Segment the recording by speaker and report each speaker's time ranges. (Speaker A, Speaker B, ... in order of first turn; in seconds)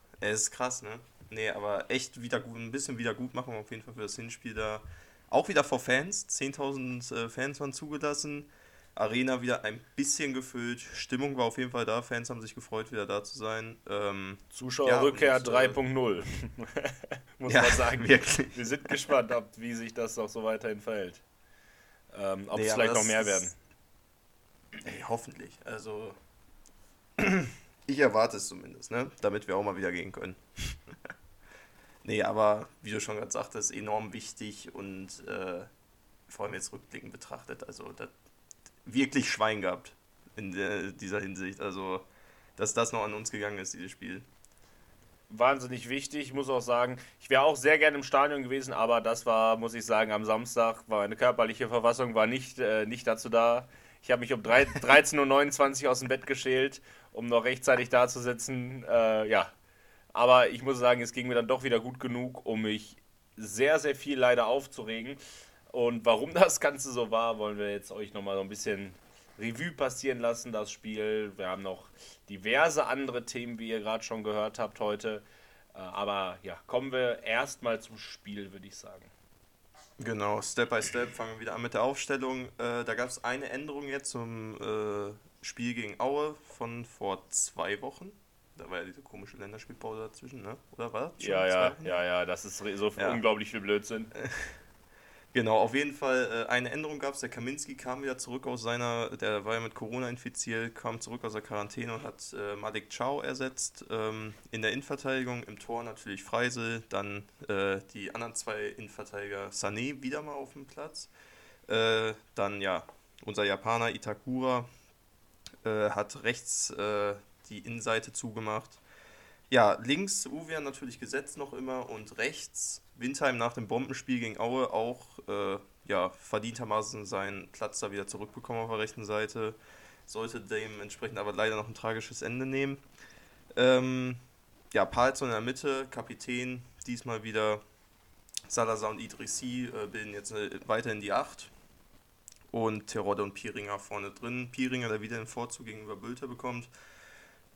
Speaker A: 0.2-15.8, 17.5-18.9, 22.5-23.5, 24.8-26.2, 27.2-30.8, 32.0-35.7, 36.3-38.1, 38.9-42.0, 42.6-44.3, 80.0-92.0, 93.0-93.2, 94.1-94.5, 95.3-111.1, 111.7-114.7, 115.6-118.8, 119.5-132.8, 133.6-134.2, 134.7-137.6, 138.5-141.5, 142.5-146.7
Speaker B: 14.5-21.2, 22.1-23.6, 45.3-59.5, 60.1-65.2, 65.7-79.1, 91.2-94.1